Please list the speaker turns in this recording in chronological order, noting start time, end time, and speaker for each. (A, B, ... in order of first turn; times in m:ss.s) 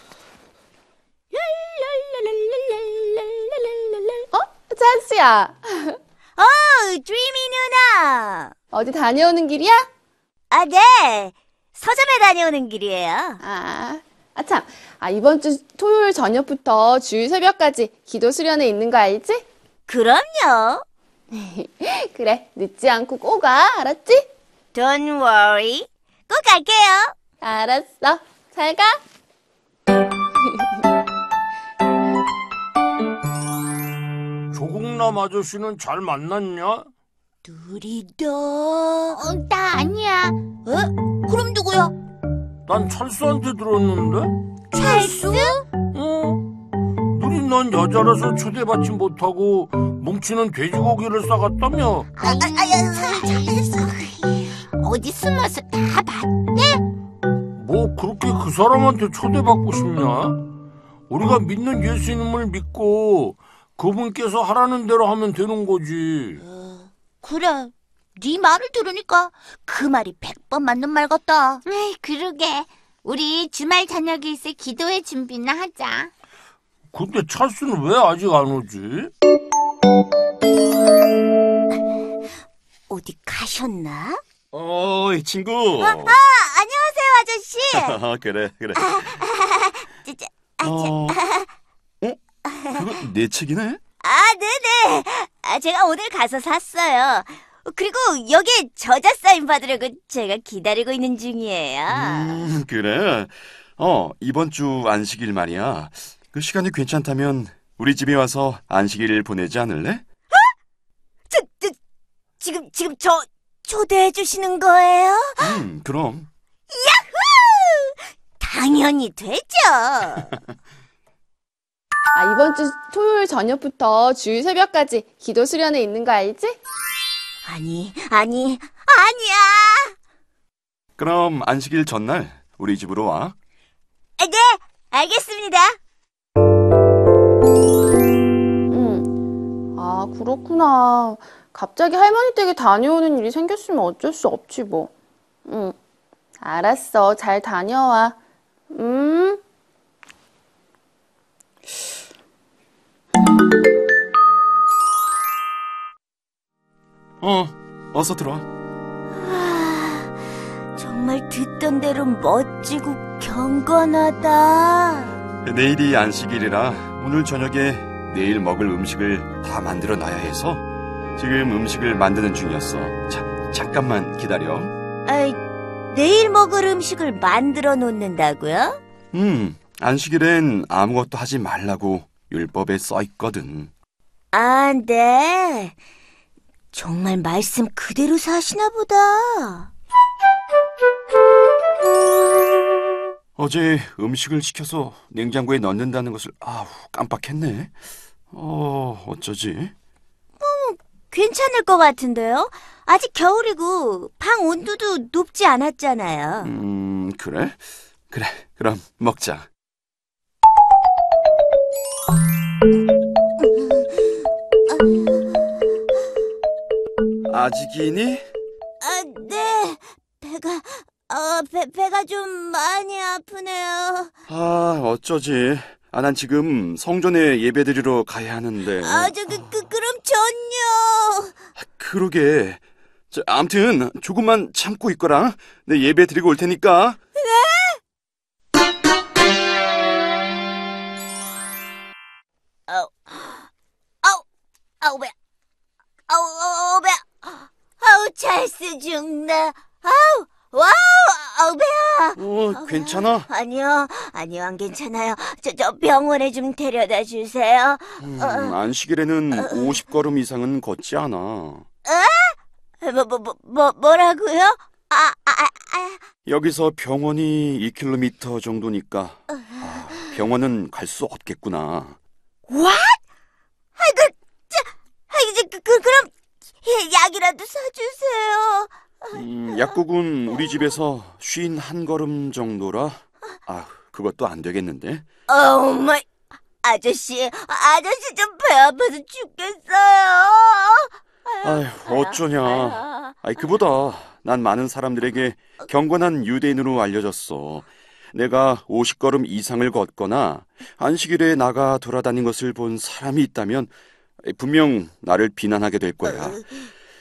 0:01.3-0:04.2 A
0:04.3-0:06.0 B
0:06.4-0:08.5 A
0:08.7-0:09.8 B
0:10.5-0:13.4 A
0:13.4-0:19.4 B
0:19.9-0:20.8 A
0:21.3-0:24.2 B
0:24.7-0:27.1 A
0:27.4-0:29.0 B
0:34.5-0:36.9 C
0:37.4-0:39.2 A
0:39.2-0:40.4 D
0:40.6-0:41.9 A
0:42.6-0:44.3 C
0:44.7-0:45.6 A
0:44.7-0:45.6 D
0:45.9-0:46.5 C
0:47.1-0:52.1 C
0:52.2-0:54.1 A
0:52.2-0:56.8 D
0:57.6-1:00.5 C
1:01.1-1:06.4 C
1:06.5-1:11.6 A
1:11.6-1:16.1 D
1:16.9-1:19.1 C
1:22.9-1:24.2 A
1:24.5-1:26.2 E
1:25.8-1:28.0 A
1:27.7-1:29.0 E
1:28.8-1:31.5 A
1:30.6-1:31.2 E
1:32.4-1:32.8 A
1:32.7-1:33.8 E
1:34.0-1:42.5 A
1:41.9-1:50.0 E
1:51.3-1:51.8 A
1:52.4-1:55.6 A
1:55.4-1:56.3 E
1:56.7-2:00.3 A
2:02.1-2:06.6 B
2:07.4-2:09.9 A
2:11.0-2:13.3 E
2:14.2-2:15.8 A
2:18.7-2:19.1 B
2:19.8-2:24.9 B
2:25.5-2:25.7 B
2:26.4-2:28.2 B
2:28.7-2:29.4 B
2:37.2-2:38.4 E
2:39.1-2:40.1 A
2:40.8-2:45.2 A
2:45.4-2:50.6 E
2:51.2-2:54.7 E
2:55.0-2:58.8 A
2:59.1-3:03.7 E
3:04.3-3:05.7 A
3:06.7-3:09.7 A
3:13.4-3:17.7 E
3:18.3-3:19.7 E
3:20.4-3:26.5 A
3:26.4-3:29.5 E
3:33.4-3:34.1 A
3:34.7-3:35.5 A
3:37.3-3:38.2 E
3:38.8-3:44.1 A
3:44.3-3:49.1 E
3:48.8-3:51.3 A
3:51.6-3:57.0 E
3:57.2-3:57.8 A
4:02.7-4:03.5 A
4:04.8-4:05.1 A
4:06.1-4:18.6 A
4:12.2-4:13.3 E
4:18.0-4:21.6 E
4:19.3-4:19.8 A
4:21.8-4:26.0 A
4:26.2-4:32.0 E
4:32.5-4:33.0 A
4:33.8-4:36.1 A
4:36.6-4:39.2 A
4:39.1-4:45.0 E
4:45.3-4:46.0 A
4:46.6-4:53.1 A
4:51.4-5:03.7 E
5:04.2-5:06.4 E
5:06.0-5:06.7 A